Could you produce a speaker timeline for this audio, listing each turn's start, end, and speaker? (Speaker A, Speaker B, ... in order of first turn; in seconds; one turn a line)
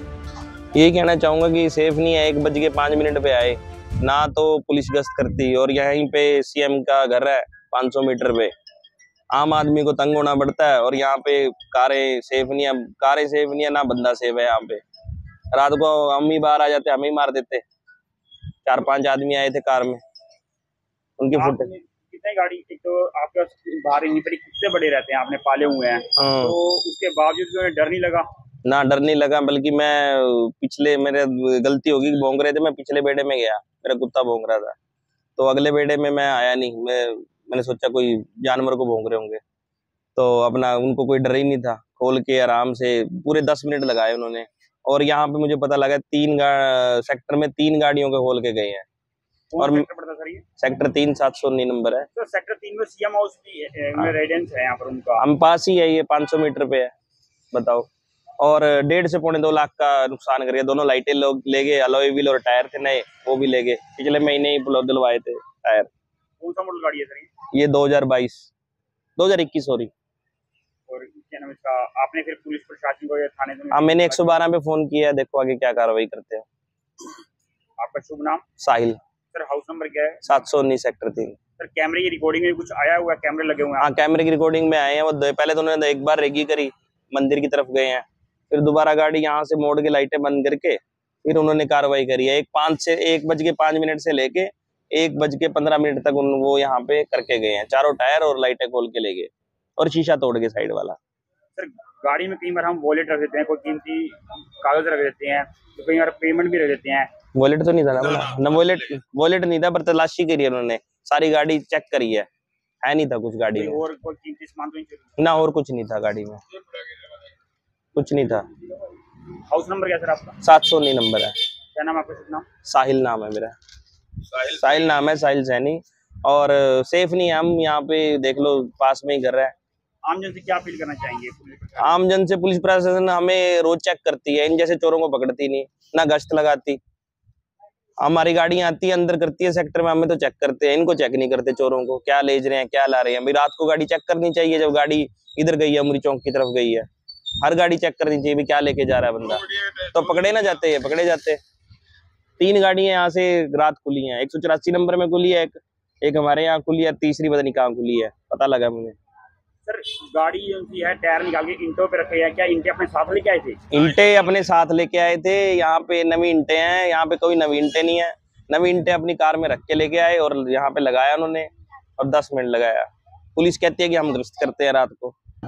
Speaker A: 0.7-8.5
Speaker A: 9.3-14.8
Speaker A: 15.5-17.6
Speaker A: 18.6-20.0
Speaker A: 21.2-21.7
Speaker B: 21.3-28.3
Speaker A: 26.2-26.6
Speaker A: 28.6-34.8
Speaker A: 35.4-39.4
Speaker A: 40.1-48.9
Speaker B: 49.5-50.4
Speaker A: 50.6-52.1
Speaker B: 52.1-55.2
Speaker A: 55.2-56.9
Speaker A: 57.5-57.9
Speaker A: 58.4-65.9
Speaker B: 66.4-67.3
Speaker A: 67.5-68.5
Speaker A: 69.2-69.9
Speaker B: 70.9-74.3
Speaker A: 73.7-76.5
Speaker B: 77.8-78.4
Speaker A: 78.6-79.0
Speaker B: 79.3-80.2
Speaker A: 80.2-81.4
Speaker B: 81.6-83.9
Speaker A: 83.8-101.0
Speaker B: 101.6-107.1
Speaker A: 107.3-112.3
Speaker A: 112.8-113.8
Speaker B: 113.5-115.3
Speaker A: 115.2-116.4
Speaker A: 118.0-118.5
Speaker B: 119.5-120.4
Speaker A: 120.4-121.3
Speaker B: 121.8-122.5
Speaker A: 122.7-123.5
Speaker A: 124.3-129.5
Speaker B: 130.1-132.0
Speaker A: 131.8-136.8
Speaker A: 138.0-146.9
Speaker A: 147.4-151.4
Speaker A: 152.4-158.9
Speaker B: 159.7-163.6
Speaker A: 163.7-175.2